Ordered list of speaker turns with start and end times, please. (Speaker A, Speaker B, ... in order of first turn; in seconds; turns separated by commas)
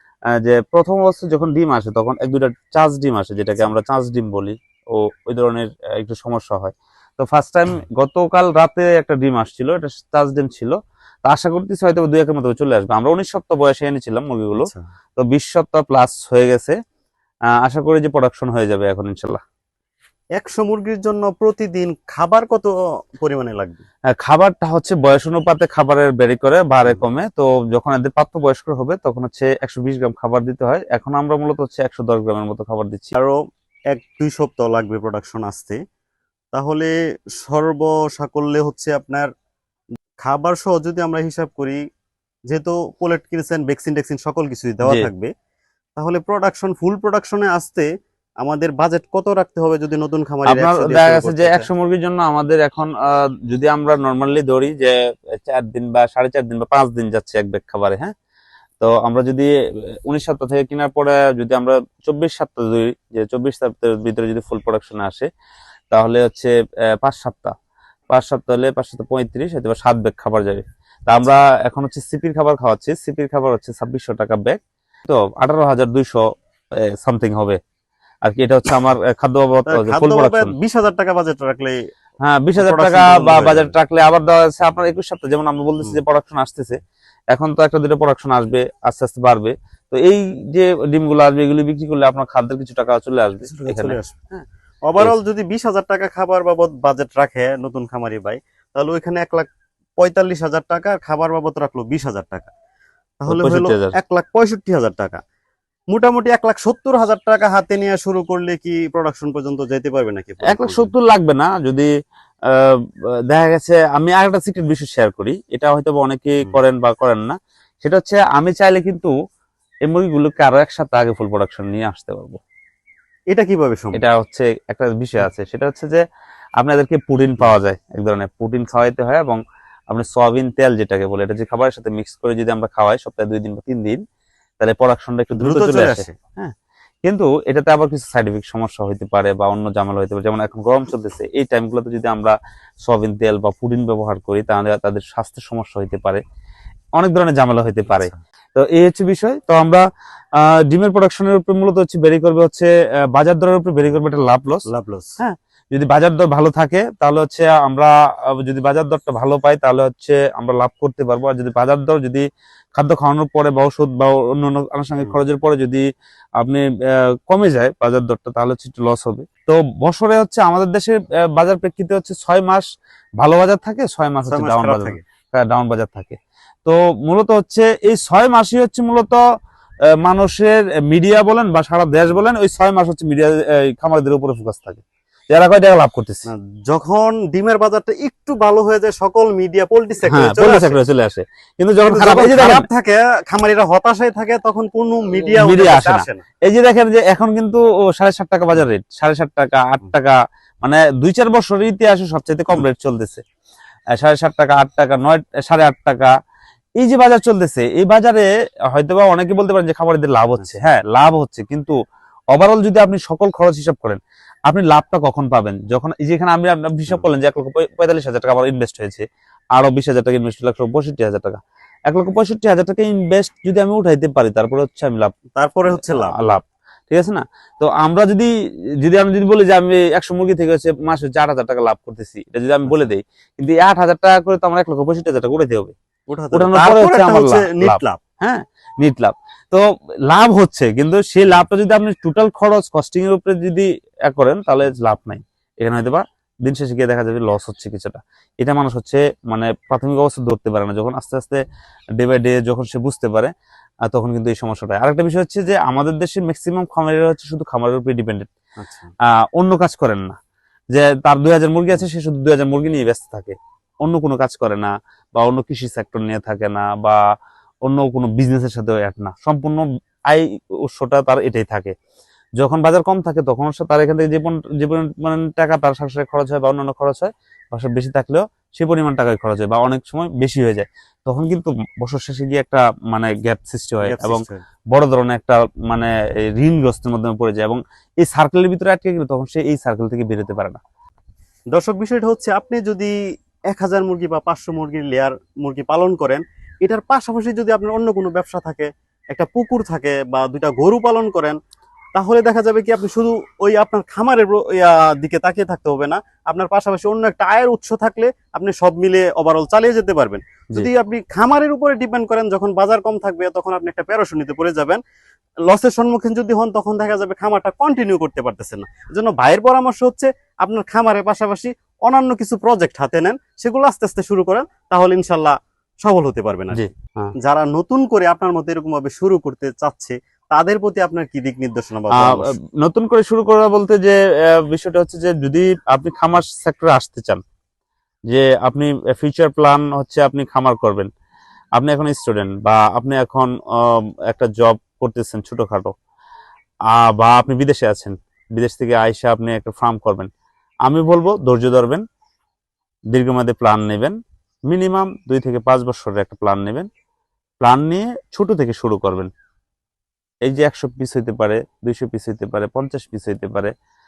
Speaker A: 0.3-16.8, Speaker B: 14.6-14.9, Speaker A: 17.6-19.4, Speaker B: 20.4-23.9, Speaker A: 24.1-33.1, Speaker B: 33.1-33.4, Speaker B: 33.9-35.8, Speaker B: 36.5-39.3, Speaker B: 40.2-41.8, Speaker B: 42.5-45.3, Speaker B: 46.0-47.9, Speaker B: 48.4-51.7, Speaker A: 50.5-58.1, Speaker A: 58.8-65.3, Speaker A: 65.9-67.5, Speaker A: 68.1-77.6, Speaker A: 78.2-80.5, Speaker B: 79.7-81.8, Speaker A: 82.2-86.8, Speaker B: 82.6-83.7, Speaker A: 87.3-94.4, Speaker B: 93.4-94.2, Speaker B: 94.9-102.5, Speaker B: 103.2-105.2, Speaker A: 103.3-104.0, Speaker B: 105.9-110.9, Speaker A: 110.5-111.9, Speaker A: 112.5-119.1, Speaker A: 119.9-122.4, Speaker B: 123.3-124.0, Speaker A: 123.9-126.0, Speaker A: 126.6-129.4, Speaker A: 129.9-134.0, Speaker A: 134.6-146.2, Speaker B: 135.4-136.2, Speaker A: 147.0-154.7, Speaker B: 147.9-148.2, Speaker B: 154.7-155.2, Speaker A: 155.2-165.8, Speaker A: 166.4-172.7, Speaker A: 173.2-179.2, Speaker B: 174.3-175.0, Speaker A: 180.0-186.3, Speaker B: 186.3-190.8, Speaker A: 190.1-192.7, Speaker B: 191.8-196.2, Speaker A: 195.4-203.2, Speaker A: 203.9-206.1, Speaker A: 206.8-211.8, Speaker A: 212.3-225.2, Speaker B: 225.4-226.2, Speaker A: 225.7-228.3, Speaker A: 228.8-235.7, Speaker B: 236.1-238.0, Speaker A: 236.3-251.4, Speaker A: 252.0-253.3, Speaker A: 253.9-258.3, Speaker B: 258.6-258.9, Speaker A: 259.0-260.2, Speaker A: 260.7-267.0, Speaker A: 267.6-271.8, Speaker A: 272.4-290.6, Speaker B: 283.8-284.4, Speaker B: 291.5-292.9, Speaker B: 293.5-301.4, Speaker B: 301.9-314.8, Speaker B: 315.5-326.6, Speaker A: 326.5-327.1, Speaker B: 327.2-332.3, Speaker A: 331.9-337.2, Speaker A: 338.1-340.9, Speaker A: 341.6-345.7, Speaker A: 346.7-350.1, Speaker A: 350.7-351.9, Speaker A: 352.9-354.0, Speaker A: 354.5-356.7, Speaker A: 357.4-359.1, Speaker A: 360.2-363.5